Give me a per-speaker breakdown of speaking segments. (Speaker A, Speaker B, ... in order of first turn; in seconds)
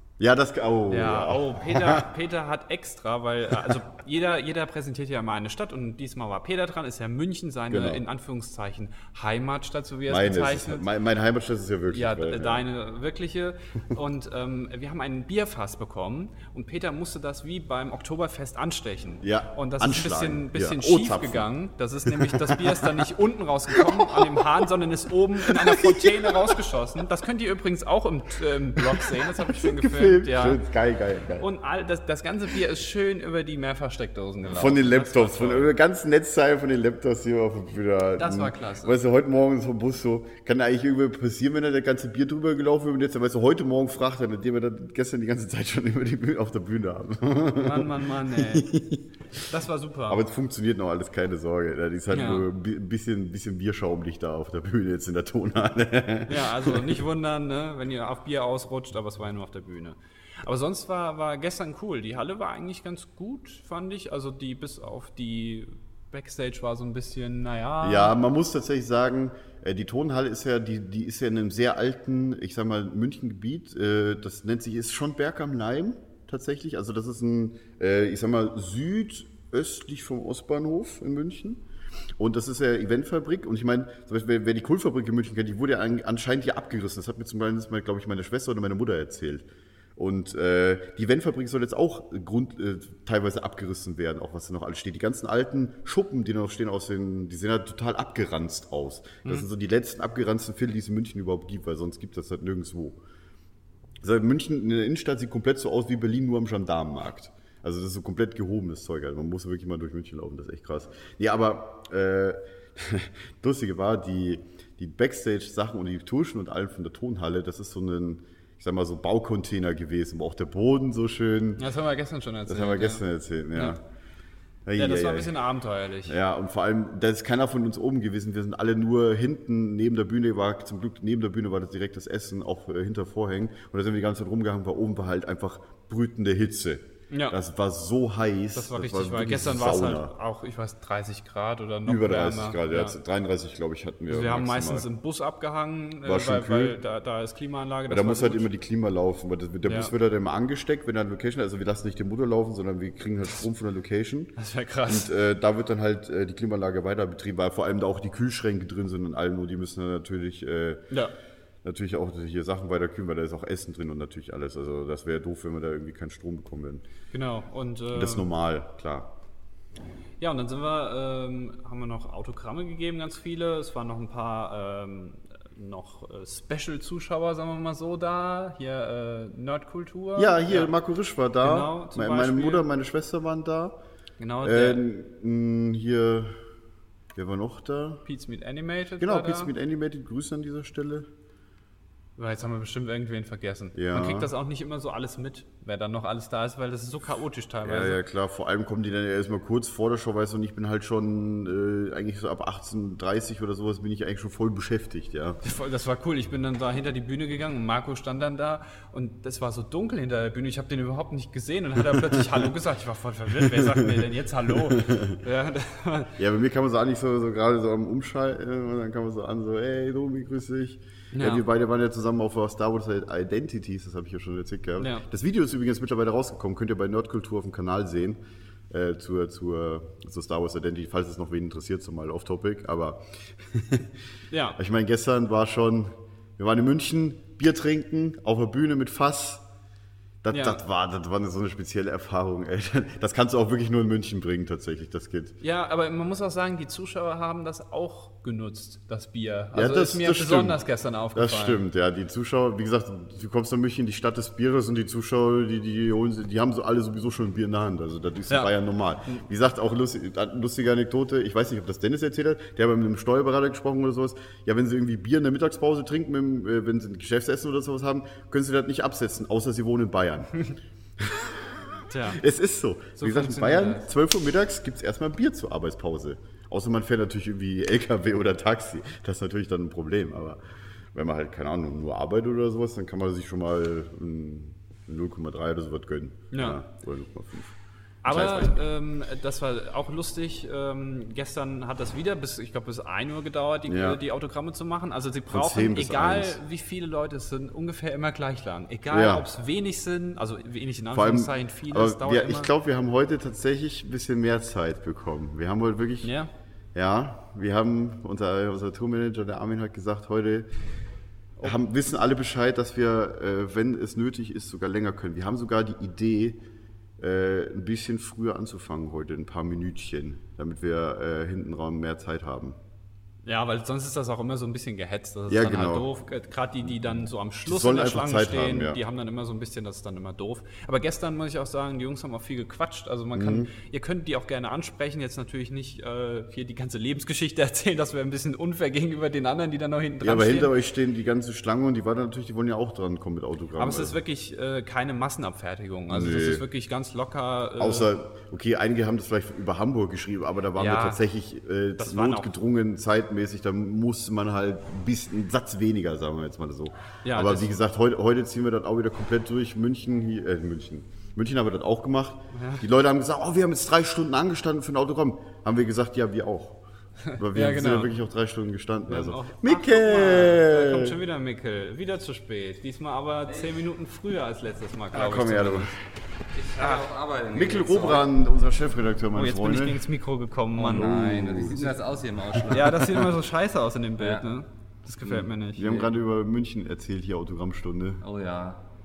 Speaker A: 0.2-2.0, 7.7-8.0, 10.1-12.6, 19.2-21.5, 22.1-23.1, 23.7-24.5, 25.5-26.6, 28.8-31.5, 34.4-49.0, 50.1-56.9, 67.8-81.6, 82.2-89.4, 90.0-103.0, 104.0-121.6, 122.5-123.8, 124.7-125.3, 126.1-140.1, 141.8-144.9, 146.0-146.8, 147.9-154.3, 154.8-160.8, 161.6-166.8, 167.9-169.1, 180.2-183.8, 184.4-186.4, 187.1-188.0, 189.0-191.1, 193.7-194.3, 197.6-205.4, 213.4-213.9, 214.5-215.2, 216.2-233.9, 234.6-239.4, 240.2-245.3, 249.5-250.6, 251.1-270.4, 271.0-271.6, 272.1-280.4, 280.9-287.5, 288.1-288.6, 293.7-294.0, 295.3-296.4, 298.9-299.2, 300.9-306.1, 306.7-310.5, 311.4-316.4, 317.0-322.6, 325.3-325.9, 327.4-328.8, 333.1-333.5, 340.0-343.9, 345.9-346.4, 347.6-366.6, 367.2-371.0, 374.9-375.7, 377.3-379.8, 380.6-381.7, 382.4-382.7, 385.6-388.0
Speaker B: 0.9-10.8, 11.9-30.6, 31.4-35.7, 38.2-39.0, 47.5-48.7, 49.5-50.2, 52.1-52.5, 56.3-68.2, 121.6-123.0, 124.8-126.2, 137.1-137.4, 138.5-143.0, 144.1-148.5, 149.6-149.9, 154.4-155.1, 167.1-168.3, 170.2-180.7, 181.4-182.7, 184.2-184.8, 188.0-189.5, 192.2-198.0, 205.4-216.1, 221.1-221.4, 224.8-225.0, 234.3-234.6, 240.3-240.6, 245.4-251.6, 271.9-272.2, 273.0-273.9, 286.3-286.6, 288.0-302.5, 306.0-306.3, 323.2-340.5, 343.6-347.9, 350.6-351.0, 351.8-352.3, 357.0-357.5, 362.3-362.6, 367.1-367.9, 368.9-375.8, 376.6-376.8, 379.1-381.0, 382.5-385.9
Speaker C: 373.3-373.6, 376.3-378.1, 380.6-383.1, 384.0-384.3, 388.0-388.6